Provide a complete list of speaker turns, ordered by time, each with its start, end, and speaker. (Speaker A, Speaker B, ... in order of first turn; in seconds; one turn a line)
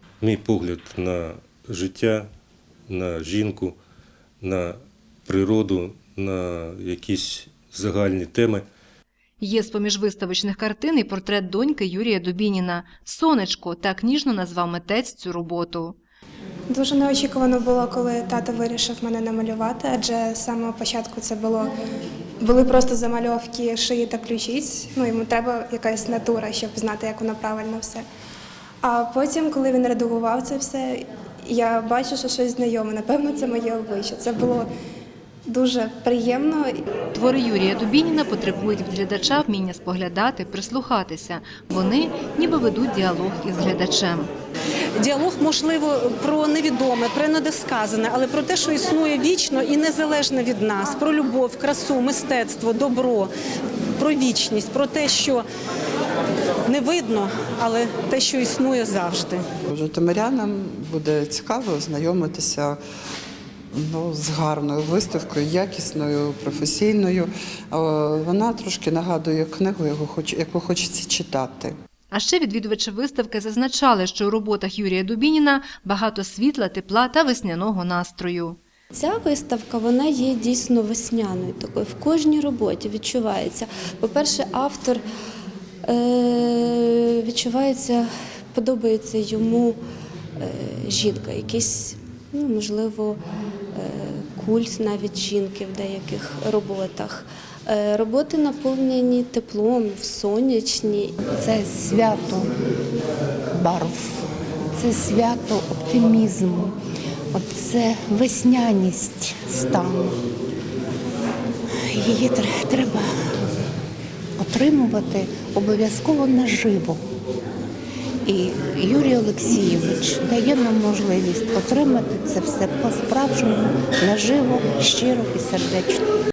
Speaker A: 0.2-2.3
Speaker A: 2.9-3.8
Speaker A: 4.4-8.7
Speaker B: 9.4-16.0
Speaker C: 16.7-21.7
Speaker C: 22.4-28.0
Speaker C: 28.8-34.7
Speaker C: 35.5-36.8
Speaker B: 37.1-44.3
Speaker D: 45.0-53.3
Speaker D: 54.0-55.5
Speaker D: 56.6-59.5
Speaker E: 59.7-62.8
Speaker E: 63.7-71.8
Speaker B: 72.1-78.6
Speaker F: 78.9-85.0
Speaker F: 85.9-89.8
Speaker F: 90.4-101.2
Speaker G: 101.3-102.5
Speaker G: 103.6-104.2
Speaker G: 104.8-106.8
Speaker G: 107.3-110.2
Speaker G: 111.8-113.1
Speaker G: 114.4-117.0
Speaker G: 118.2-126.0